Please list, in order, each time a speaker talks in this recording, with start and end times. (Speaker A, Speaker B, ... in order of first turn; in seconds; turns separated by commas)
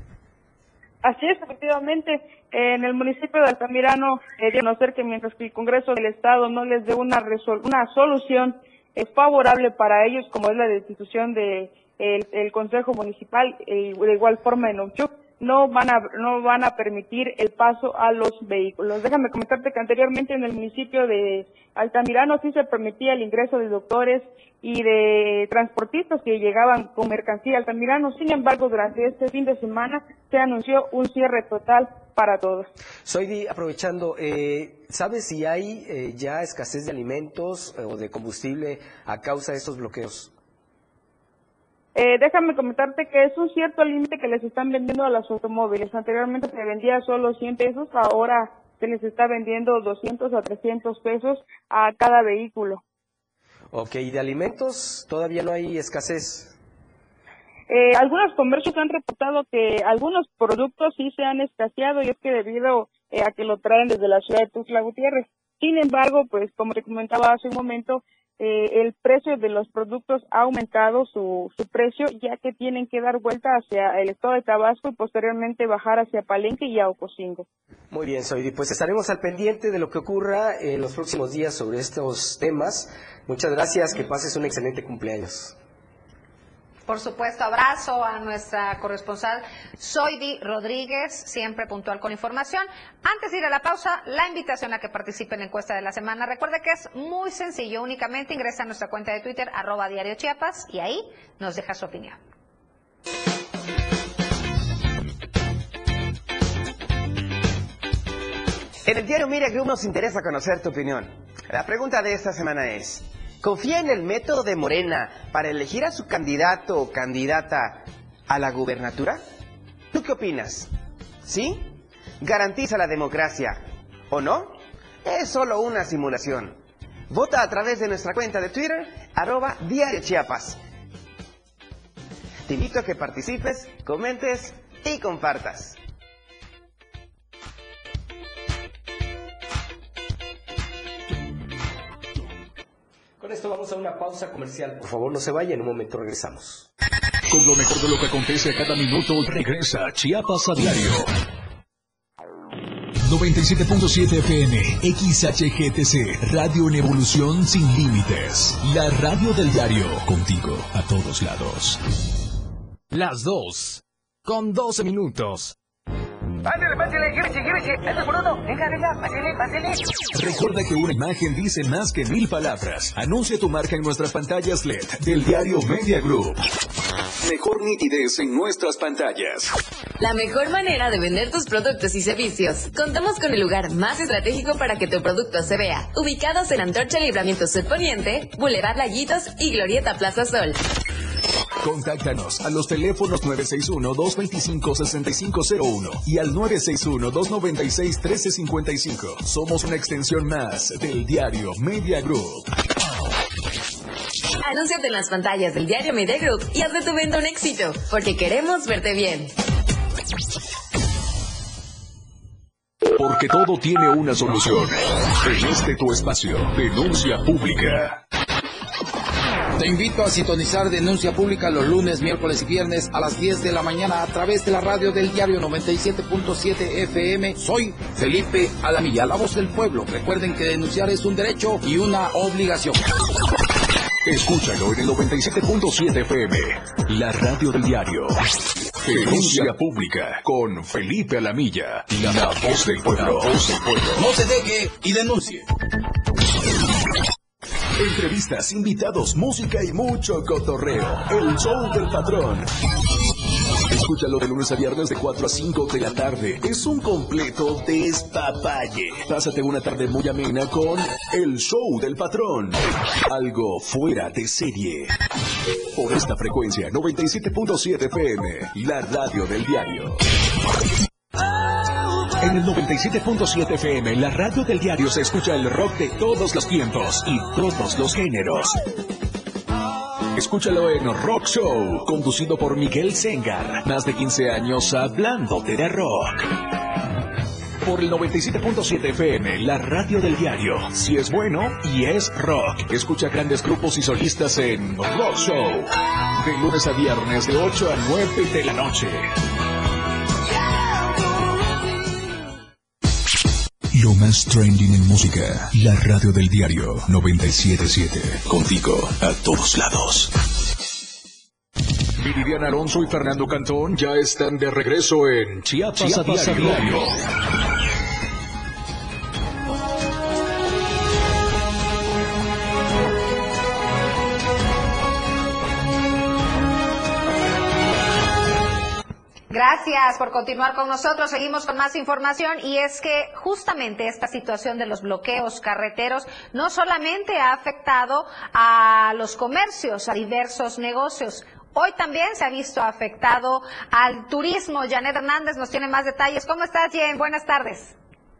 Speaker A: 1.0-32.7, Speaker B: 33.0-40.3, Speaker A: 41.9-52.8, Speaker B: 53.7-56.5, Speaker A: 57.7-77.5, Speaker B: 77.9-85.5, Speaker C: 86.9-102.2, Speaker D: 108.8-119.2, Speaker D: 119.9-120.7, Speaker D: 121.2-121.7, Speaker D: 122.2-126.6, Speaker D: 127.1-130.6, Speaker D: 132.5-135.8, Speaker B: 143.2-146.7, Speaker E: 147.3-151.1, Speaker E: 153.0-161.8, Speaker F: 162.9-165.5, Speaker E: 170.1-176.4, Speaker E: 177.2-179.5, Speaker G: 180.0-190.6, Speaker E: 191.6-202.4, Speaker G: 204.4-209.3, Speaker E: 212.9-218.0, Speaker H: 219.6-232.8, Speaker E: 234.0-238.2, Speaker E: 238.8-244.0, Speaker H: 244.0-245.4, Speaker E: 247.8-252.5, Speaker E: 253.7-264.9, Speaker E: 265.7-270.0, Speaker E: 272.2-278.6, Speaker E: 280.1-286.2, Speaker E: 287.6-299.1, Speaker E: 303.7-310.1, Speaker E: 312.0-316.9, Speaker F: 316.1-316.5, Speaker C: 329.3-347.8